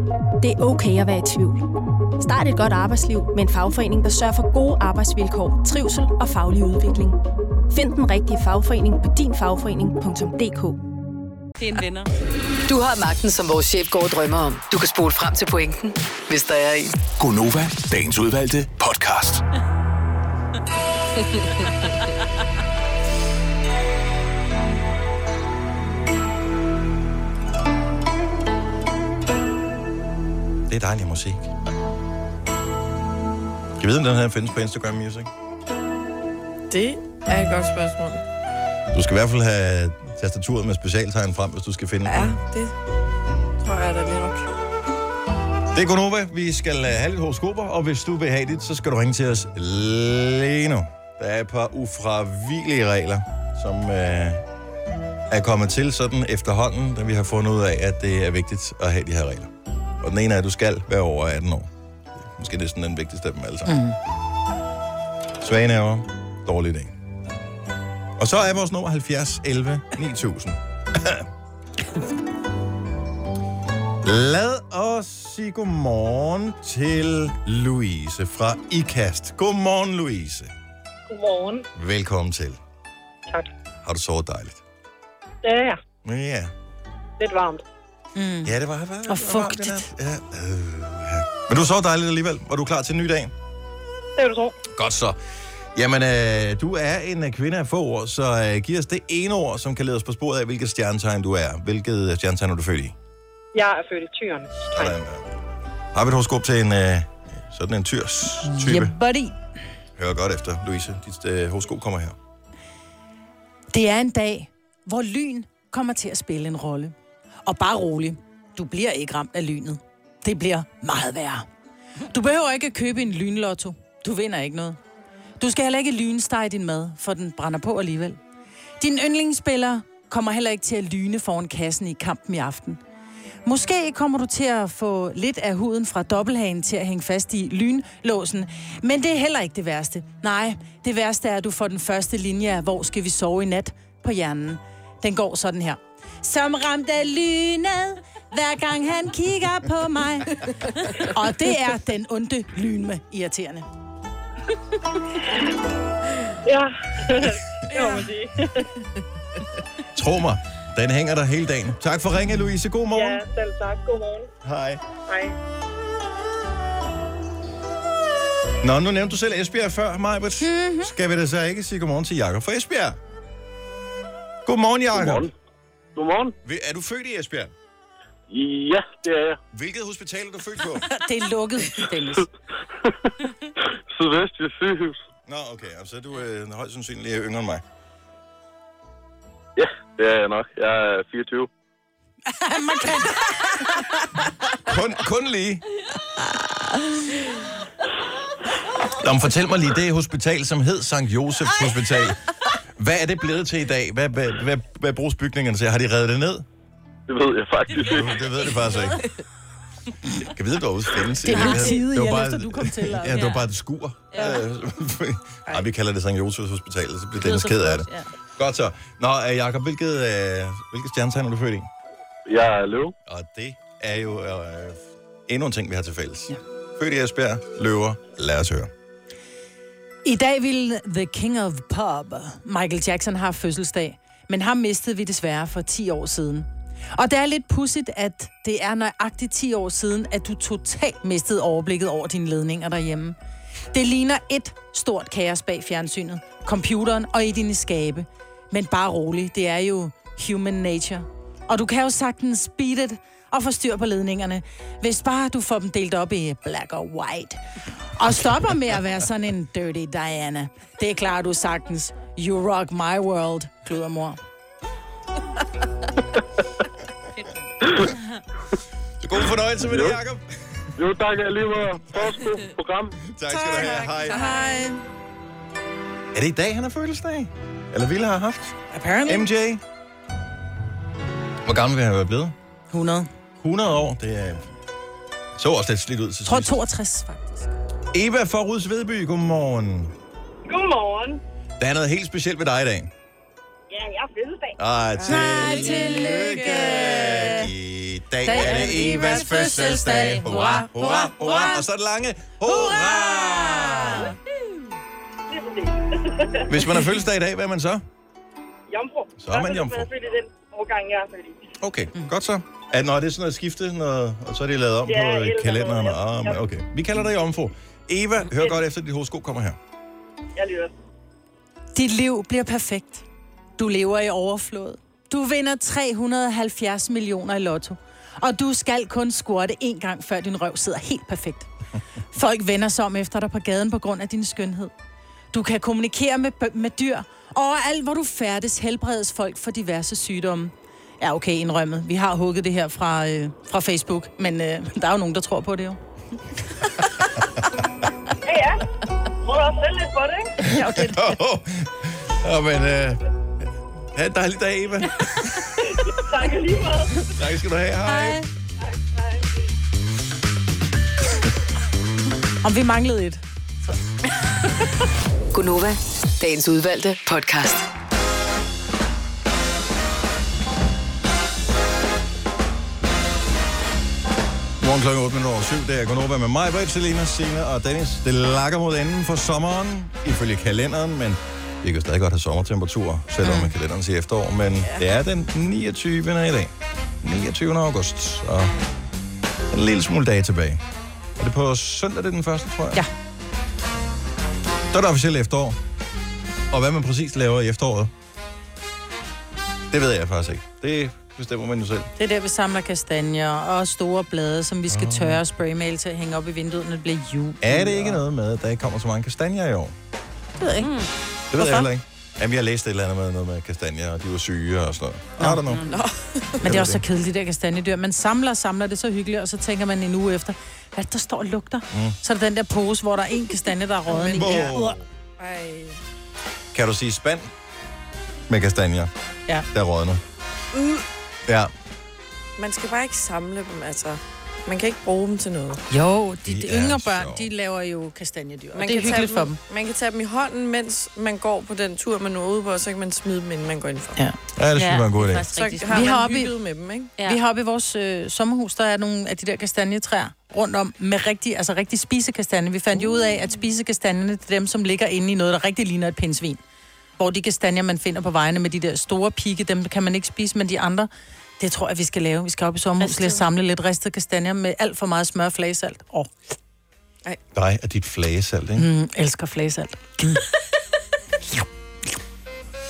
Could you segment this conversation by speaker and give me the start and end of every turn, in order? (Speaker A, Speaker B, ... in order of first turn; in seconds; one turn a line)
Speaker A: 0.4-1.6
Speaker A: 2.2-7.2
Speaker A: 7.7-10.8
Speaker B: 11.6-12.1
Speaker C: 12.7-17.0
Speaker D: 17.2-19.4
Speaker E: 30.7-31.5
Speaker E: 33.8-35.3
Speaker F: 36.7-38.2
Speaker E: 38.9-42.4
Speaker F: 42.1-42.7
Speaker F: 43.6-44.5
Speaker E: 45.7-54.4
Speaker E: 55.3-61.7
Speaker E: 62.2-63.8
Speaker G: 63.7-64.0
Speaker E: 65.4-66.9
Speaker E: 68.2-71.3
Speaker E: 74.0-80.5
Speaker H: 81.1-81.7
Speaker E: 81.8-82.6
Speaker E: 83.8-84.6
Speaker H: 85.4-85.8
Speaker E: 86.0-86.5
Speaker H: 87.2-87.6
Speaker G: 88.2-88.5
Speaker E: 88.5-93.3
Speaker G: 89.1-89.9
Speaker H: 94.2-94.6
Speaker E: 94.7-95.2
Speaker E: 95.8-103.0
Speaker H: 103.5-105.0
Speaker E: 104.7-105.3
Speaker E: 105.9-109.0
Speaker G: 108.4-109.3
Speaker E: 110.0-112.2
Speaker G: 113.7-116.9
Speaker G: 117.5-121.5
Speaker G: 122.1-124.8
Speaker G: 125.4-128.2
Speaker G: 128.8-132.8
Speaker G: 133.4-153.7
Speaker H: 157.2-158.4
Speaker E: 159.9-163.2
Speaker H: 162.9-164.3
Speaker E: 164.4-164.8
Speaker E: 168.6-173.0
Speaker G: 170.4-170.9
Speaker E: 174.5-175.3
Speaker I: 174.9-175.3
Speaker I: 176.0-176.3
Speaker E: 176.4-177.5
Speaker I: 178.3-179.4
Speaker E: 179.5-180.8
Speaker G: 180.9-182.3
Speaker I: 183.9-185.0
Speaker E: 185.3-187.6
Speaker I: 189.6-191.5
Speaker G: 192.3-193.7
Speaker E: 194.7-195.6
Speaker E: 199.0-202.2
Speaker E: 202.8-206.4
Speaker I: 207.1-208.1
Speaker E: 207.8-209.0
Speaker E: 210.3-221.7
Speaker G: 211.2-213.3
Speaker B: 211.3-211.8
Speaker B: 213.1-213.5
Speaker B: 214.1-214.4
Speaker B: 217.2-218.0
Speaker I: 222.3-222.9
Speaker E: 223.1-228.7
Speaker G: 230.1-243.2
Speaker G: 243.7-257.4
Speaker G: 258.0-264.2
Speaker E: 269.0-270.3
Speaker I: 269.7-270.0
Speaker I: 270.8-273.0
Speaker E: 273.1-274.3
Speaker G: 273.3-274.8
Speaker F: 273.4-274.6
Speaker E: 276.1-278.6
Speaker G: 278.7-279.3
Speaker E: 279.1-279.6
Speaker E: 281.4-282.4
Speaker G: 282.7-283.1
Speaker E: 283.4-284.5
Speaker E: 285.4-286.6
Speaker G: 286.3-287.5
Speaker E: 287.9-289.9
Speaker H: 290.5-291.2
Speaker E: 291.6-292.9
Speaker H: 293.7-294.5
Speaker E: 294.6-304.2
Speaker F: 295.0-297.2
Speaker G: 295.1-297.5
Speaker G: 298.2-301.6
Speaker B: 299.0-300.7
Speaker G: 302.5-304.1
Speaker H: 305.3-306.6
Speaker E: 306.5-307.9
Speaker H: 308.7-311.4
Speaker E: 309.2-309.9
Speaker E: 311.6-319.6
Speaker H: 314.9-316.5
Speaker H: 318.3-318.6
Speaker H: 320.4-320.7
Speaker G: 321.8-323.1
Speaker G: 323.6-331.5
Speaker G: 332.1-334.7
Speaker G: 335.3-345.8
Speaker H: 348.3-348.6
Speaker H: 349.2-350.3
Speaker E: 350.4-353.0
Speaker G: 350.6-350.9
Speaker E: 353.9-355.5
Speaker H: 355.7-357.1
Speaker E: 357.1-358.2
Speaker H: 358.6-359.2
Speaker G: 362.4-363.8
Speaker C: 365.3-367.6
Speaker E: 374.6-388.5
Speaker G: 383.2-383.5
Speaker E: 389.5-390.6
Speaker E: 391.2-392.9
Speaker E: 394.7-395.6
Speaker E: 396.5-397.9
Speaker E: 399.7-401.9
Speaker G: 402.0-408.0
Speaker E: 404.7-405.2
Speaker E: 407.4-409.8
Speaker G: 410.4-410.7
Speaker B: 410.6-410.9
Speaker E: 411.3-415.7
Speaker B: 415.5-415.8
Speaker F: 415.7-416.4
Speaker E: 416.4-416.8
Speaker G: 416.4-424.8
Speaker E: 421.7-422.0
Speaker F: 423.9-424.5
Speaker E: 424.1-424.8
Speaker F: 425.2-425.8
Speaker E: 426.5-427.3
Speaker E: 428.3-428.9
Speaker E: 429.5-430.0
Speaker F: 430.5-430.8
Speaker E: 431.3-431.5
Speaker F: 432.4-435.6
Speaker G: 435.7-439.4
Speaker E: 436.2-437.3
Speaker F: 438.5-444.0
Speaker E: 444.4-445.3
Speaker B: 444.6-446.2
Speaker F: 445.3-446.9
Speaker G: 445.7-446.3
Speaker G: 447.0-456.4
Speaker G: 457.0-466.1
Speaker B: 462.8-463.2
Speaker E: 467.3-468.7
Speaker G: 468.6-470.2